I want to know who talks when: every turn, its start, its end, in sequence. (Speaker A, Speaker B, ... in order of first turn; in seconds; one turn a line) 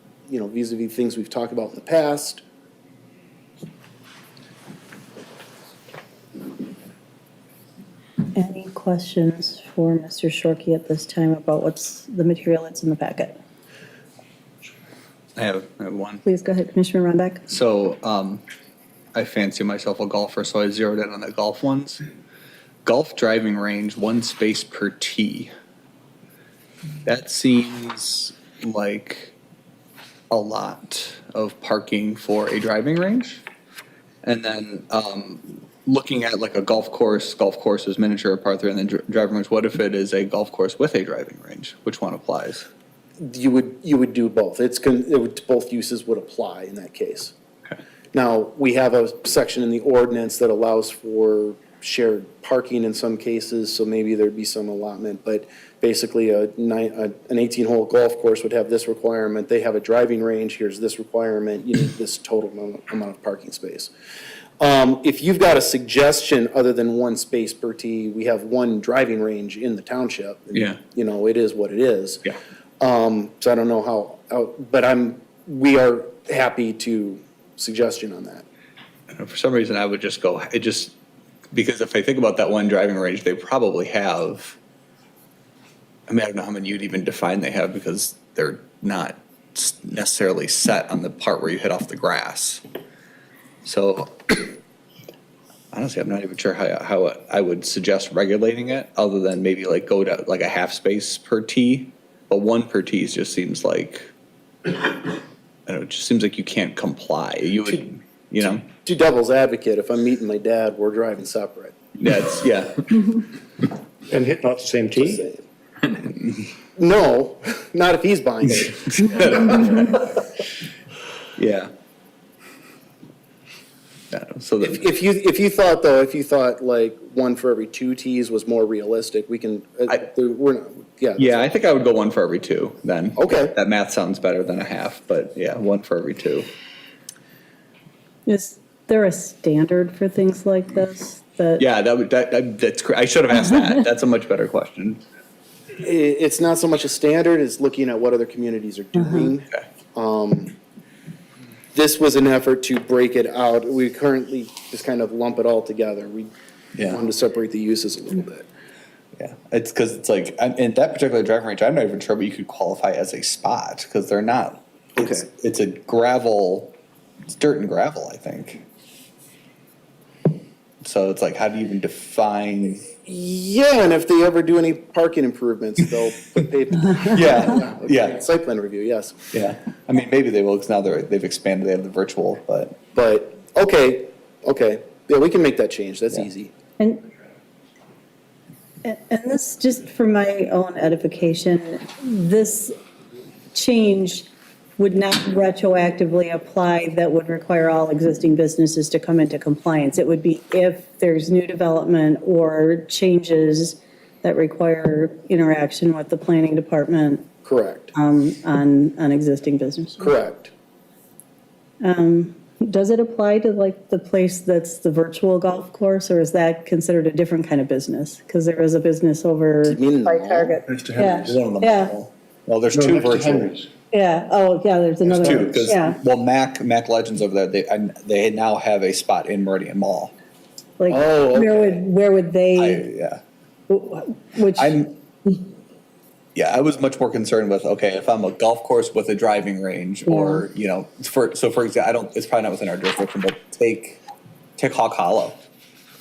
Speaker A: 0.3-2.4
Speaker B: 8.3-13.4
Speaker C: 15.3-16.2
Speaker B: 16.2-17.4
Speaker C: 17.5-18.4
Speaker C: 19.1-22.0
Speaker C: 22.8-25.5
Speaker C: 27.0-29.4
Speaker C: 30.3-33.4
Speaker C: 34.2-42.6
Speaker A: 43.2-47.3
Speaker A: 48.1-63.9
Speaker A: 64.6-72.2
Speaker C: 70.5-70.8
Speaker A: 72.8-78.5
Speaker C: 79.1-81.0
Speaker C: 81.5-84.6
Speaker C: 86.1-92.6
Speaker C: 93.6-94.5
Speaker C: 95.7-104.1
Speaker C: 105.7-108.6
Speaker A: 108.4-111.8
Speaker C: 112.0-113.2
Speaker D: 114.1-115.2
Speaker A: 115.0-115.4
Speaker A: 116.7-119.9
Speaker C: 118.6-120.2
Speaker C: 121.4-121.7
Speaker C: 124.1-124.8
Speaker A: 124.6-131.4
Speaker C: 131.2-136.4
Speaker A: 133.2-133.6
Speaker B: 138.2-141.6
Speaker C: 141.6-145.0
Speaker A: 145.8-150.6
Speaker B: 149.0-149.3
Speaker A: 151.7-156.3
Speaker C: 156.7-157.0
Speaker A: 156.8-158.5
Speaker C: 159.2-166.7
Speaker A: 165.0-165.2
Speaker C: 167.3-168.6
Speaker C: 170.8-172.8
Speaker A: 173.0-179.2
Speaker C: 177.0-178.2
Speaker C: 179.3-182.8
Speaker A: 182.9-186.5
Speaker B: 188.8-192.7
Speaker B: 193.5-207.3
Speaker A: 207.4-207.9
Speaker B: 207.9-210.1
Speaker A: 210.0-210.5
Speaker B: 211.8-221.9
Speaker A: 219.6-220.6
Speaker D: 220.7-221.1
Speaker C: 221.0-223.5
Speaker D: 222.7-223.7
Speaker B: 223.9-226.0
Speaker C: 225.1-230.1
Speaker B: 230.8-232.8
Speaker A: 230.9-231.8
Speaker C: 232.5-233.2
Speaker B: 233.7-234.8
Speaker C: 234.5-234.9
Speaker C: 236.3-244.0
Speaker B: 240.1-240.4
Speaker C: 244.6-245.4